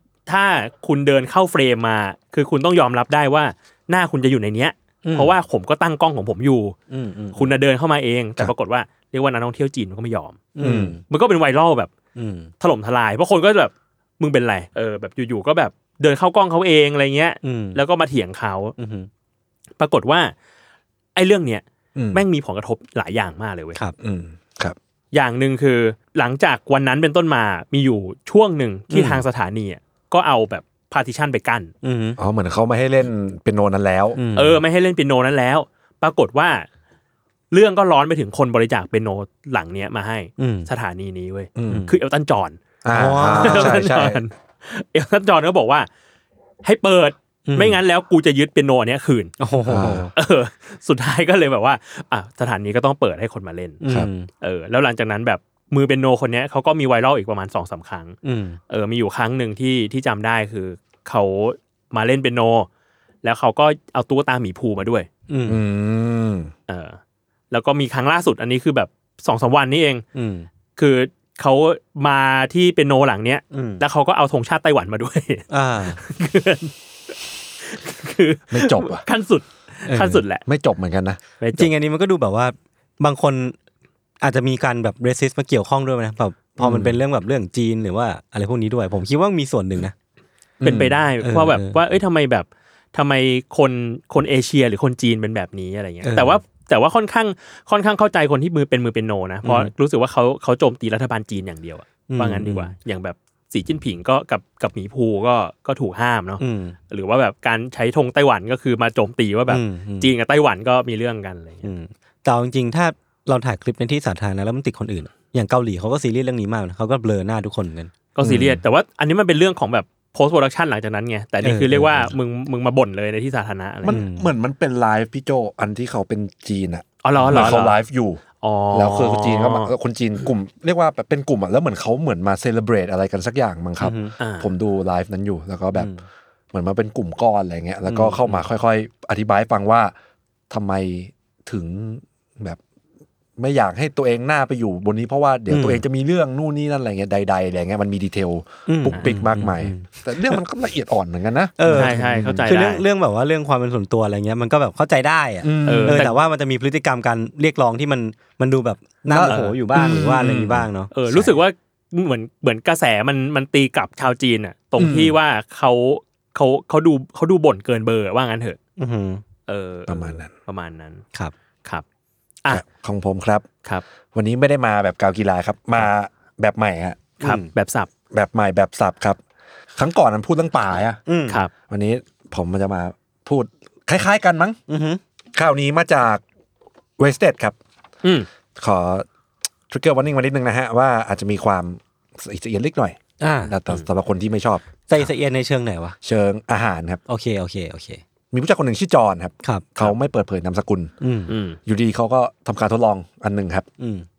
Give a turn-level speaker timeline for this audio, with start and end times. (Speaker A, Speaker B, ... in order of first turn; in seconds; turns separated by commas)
Speaker A: 0.3-6.8, Speaker B: 5.0-5.3, Speaker B: 6.9-7.5, Speaker A: 7.3-10.5, Speaker B: 10.6-11.0, Speaker C: 10.6-11.0, Speaker A: 11.1-11.9, Speaker B: 12.2-12.5, Speaker A: 12.6-18.7, Speaker B: 17.4-17.8, Speaker B: 18.8-19.1, Speaker A: 19.8-20.3, Speaker A: 21.1-23.8, Speaker C: 21.9-22.2, Speaker C: 24.0-24.8, Speaker A: 25.1-31.7, Speaker B: 28.9-29.2, Speaker B: 31.8-32.2, Speaker C: 32.2-34.2, Speaker B: 34.1-34.6, Speaker A: 34.4-36.7, Speaker A: 37.5-42.6, Speaker B: 40.4-40.7, Speaker C: 41.6-41.9, Speaker B: 41.7-41.9, Speaker C: 42.8-44.2, Speaker B: 42.9-43.8, Speaker A: 43.3-45.9, Speaker A: 46.6-49.3, Speaker B: 47.5-47.8, Speaker B: 49.4-50.1, Speaker C: 49.6-50.1, Speaker A: 50.1-53.8, Speaker B: 53.8-54.3, Speaker A: 54.4-58.1, Speaker B: 58.2-58.6, Speaker A: 58.7-62.7, Speaker A: 63.2-65.1, Speaker B: 65.3-65.6, Speaker C: 65.5-66.5, Speaker A: 66.7-67.0, Speaker A: 67.5-70.0, Speaker B: 70.1-70.5, Speaker A: 70.8-76.7, Speaker B: 73.5-73.8, Speaker B: 75.5-76.0, Speaker A: 77.6-80.4, Speaker C: 78.5-79.0, Speaker B: 79.8-80.2, Speaker C: 80.4-81.2, Speaker A: 81.4-81.7, Speaker B: 81.6-83.5, Speaker B: 84.2-89.9, Speaker C: 86.6-87.0, Speaker C: 90.6-91.0, Speaker A: 90.6-111.7, Speaker B: 91.2-91.8, Speaker B: 96.0-96.4, Speaker B: 99.4-99.7, Speaker B: 102.1-102.7, Speaker B: 106.4-106.8, Speaker B: 109.5-110.1, Speaker B: 111.6-117.9, Speaker A: 118.2-124.0, Speaker C: 118.2-118.6, Speaker B: 121.4-122.1, Speaker C: 123.8-128.2, Speaker B: 123.9-124.3, Speaker A: 127.0-127.8, Speaker B: 127.2-127.6, Speaker A: 128.4-129.7, Speaker C: 128.7-135.9, Speaker B: 133.8-134.1, Speaker A: 134.2-134.5, Speaker B: 135.7-136.0, Speaker C: 136.5-139.9, Speaker B: 137.9-138.4, Speaker C: 140.5-142.6, Speaker C: 143.4-152.5, Speaker B: 145.5-145.8, Speaker B: 148.7-150.4, Speaker B: 151.6-161.3, Speaker A: 151.7-152.8, Speaker C: 155.4-156.1, Speaker A: 155.6-156.2, Speaker C: 159.1-161.2, Speaker A: 159.3-159.6, Speaker A: 160.9-168.6, Speaker C: 164.8-165.2, Speaker B: 168.8-169.2, Speaker A: 169.5-171.0, Speaker C: 169.9-170.3, Speaker C: 172.5-173.5, Speaker C: 174.1-177.1, Speaker A: 177.2-177.9, Speaker B: 177.2-177.5, Speaker C: 178.1-179.2, Speaker C: 179.8-181.0, Speaker B: 181.1-181.4, Speaker C: 181.7-184.6, Speaker B: 184.7-185.0, Speaker C: 185.3-186.2, Speaker C: 187.0-187.6, Speaker C: 188.6-189.0, Speaker C: 189.7-194.6, Speaker B: 193.2-193.5, Speaker B: 194.9-195.9, Speaker C: 196.0-197.0, Speaker B: 197.1-198.0, Speaker C: 198.3-200.9, Speaker B: 199.4-199.8, Speaker B: 201.0-201.3, Speaker A: 201.3-201.6, Speaker C: 201.7-203.7, Speaker B: 203.8-204.1